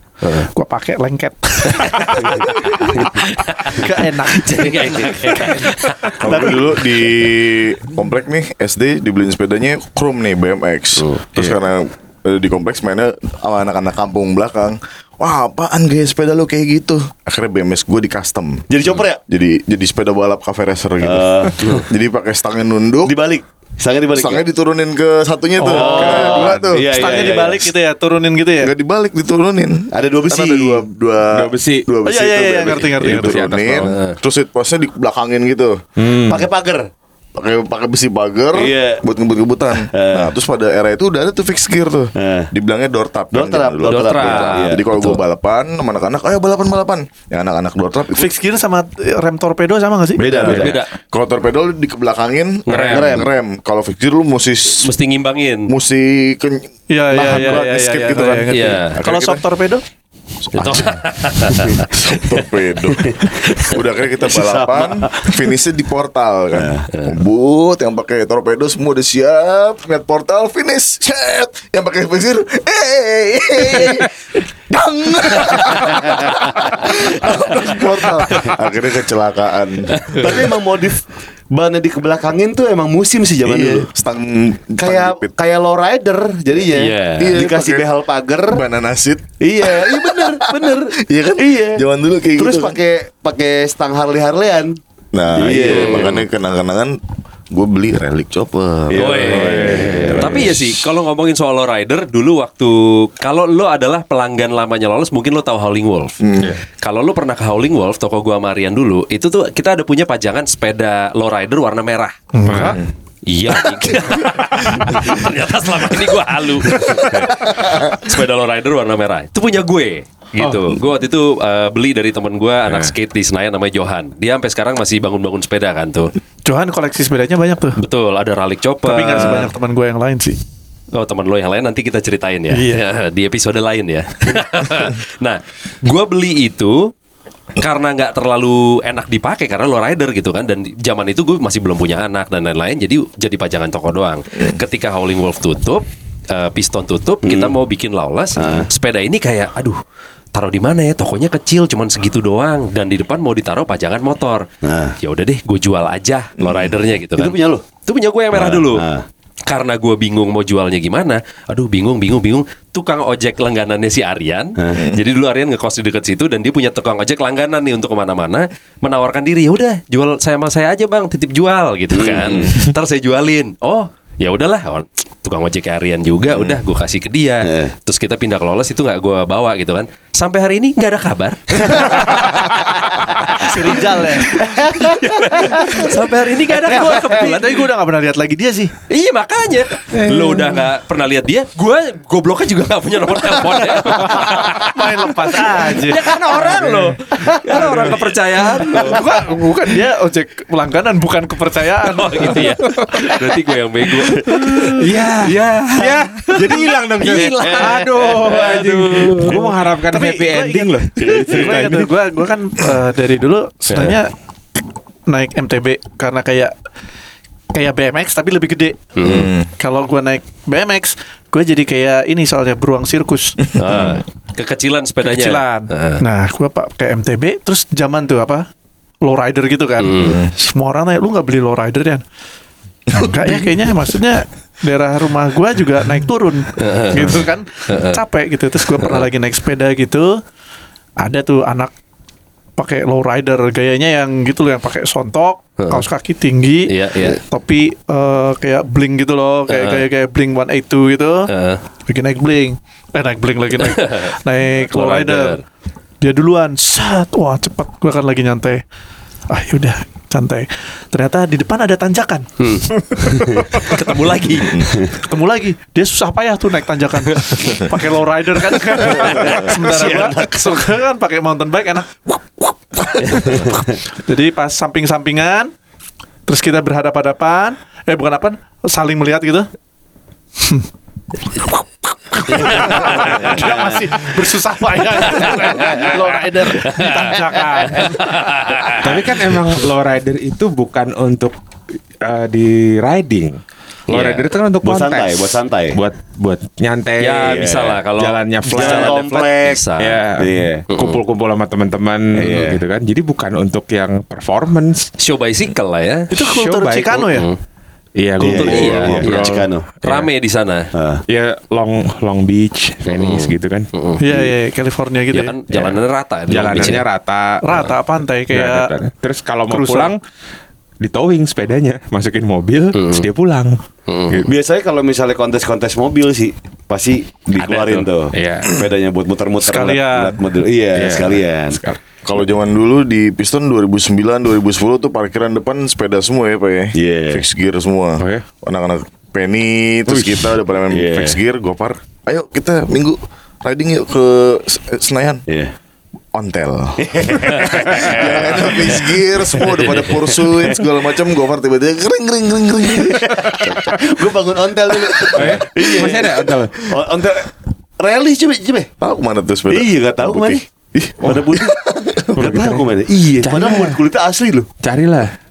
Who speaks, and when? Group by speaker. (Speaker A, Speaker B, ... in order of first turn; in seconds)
Speaker A: 0.2-0.5, 1.7-2.3, 2.9-6.5, 11.0-11.5, 33.8-34.1, 43.9-45.2, 50.3-50.9, 52.7-53.3, 54.8-55.7, 58.5-59.0, 60.5-62.4, 80.0-80.5, 86.7-87.4, 95.5-96.2, 98.9-106.2, 106.8-112.7, 113.3-126.1, 127.8-129.5, 130.9-136.9, 137.6-149.8, 150.3-154.4, 155.0-157.3, 157.8-158.8, 159.5-187.6, 188.9-199.0, 201.9-209.4, 219.0-219.3, 223.5-226.0, 229.8-230.2, 236.6-238.0, 238.8-239.1, 245.6-245.8, 246.7-247.2, 249.5-249.9, 251.3-251.6, 253.6-254.1, 254.7-255.4, 262.4-264.7, 268.7-270.4, 273.0-273.3, 282.3-283.4, 285.2-285.8, 286.5-289.2, 293.9-294.3, 297.0-300.0, 300.7-301.0, 305.0-306.1, 307.0-307.4, 308.2-310.7, 312.9-314.0, 315.1-316.8, 322.7-323.1, 323.9-324.3, 349.5-350.0
Speaker B: 0.4-5.7, 6.2-6.6, 25.6-26.3, 26.9-28.7, 32.0-33.5, 48.1-50.2, 56.9-59.8, 112.3-112.8, 126.5-127.8, 128.8-130.4, 183.4-184.4, 186.7-188.7, 193.8-198.0, 198.8-202.4, 209.9-214.1, 215.1-216.5, 217.5-218.9, 219.6-223.4, 225.0-228.4, 229.0-232.0, 232.9-240.2, 241.0-241.7, 242.6-251.3, 251.9-255.4, 256.0-258.6, 259.3-262.3, 265.0-275.5, 276.3-279.5, 280.4-280.7, 282.1-288.2, 306.1-307.3, 314.0-315.4, 317.4-318.7, 319.5-319.9, 329.4-330.2
Speaker C: 6.2-18.6, 19.3-23.1, 24.1-26.9, 28.6-35.8, 37.4-48.3, 50.2-54.9, 55.7-59.4, 60.5-80.1, 83.4-85.3, 87.2-87.9, 88.5-92.8, 95.1-97.0, 97.5-100.1, 106.2-106.5, 219.0-219.5, 223.5-224.0, 230.0-230.3, 332.0-345.2, 346.1-353.4, 354.9-355.4, 358.8-362.1
Speaker D: 18.7-19.2, 21.0-21.9, 23.1-24.4, 25.6-27.7, 29.9-30.8, 36.1-36.9, 38.5-39.0, 39.7-40.3, 42.1-42.5, 43.3-44.8, 50.2-50.8, 52.8-53.3, 63.0-63.3, 64.2-65.3, 66.5-66.8, 75.7-78.6, 80.1-83.9, 84.8-88.6, 89.4-91.8, 92.4-94.8, 95.4-96.2, 98.9-100.5, 147.2-147.5, 148.4-148.7, 154.6-154.9, 157.2-157.6, 158.3-159.1, 164.6-164.9, 171.9-172.6, 177.4-177.7, 184.2-186.0, 186.7-187.2, 207.1-208.7, 264.6-264.9, 269.8-270.3, 273.3-273.6, 283.2-283.8, 285.6-286.0, 294.6-295.8, 297.3-297.8, 298.5-299.6, 300.2-300.6, 302.1-302.6, 308.2-309.7, 310.7-311.0, 324.2-331.6, 336.8-337.2, 340.7-341.2, 345.3-345.5, 346.8-350.6, 352.7-358.7, 359.5-361.6, 362.1-364.5
Speaker E: 25.9-26.7, 31.3-31.8, 33.0-33.9, 36.0-36.5, 99.3-100.5, 112.5-112.8, 189.9-190.7, 196.0-197.0, 197.5-198.0, 202.3-203.1, 204.3-211.9, 287.3-287.8, 288.8-291.3, 292.0-293.4, 293.9-299.0, 299.8-304.9, 306.1-307.1, 308.0-310.1, 311.1-313.7, 316.3-317.6, 318.3-320.0, 320.8-324.3, 327.4-328.5, 330.7-331.8, 338.0-338.2, 339.9-340.3, 355.1-356.5, 362.2-362.7, 363.2-363.8, 364.6-365.1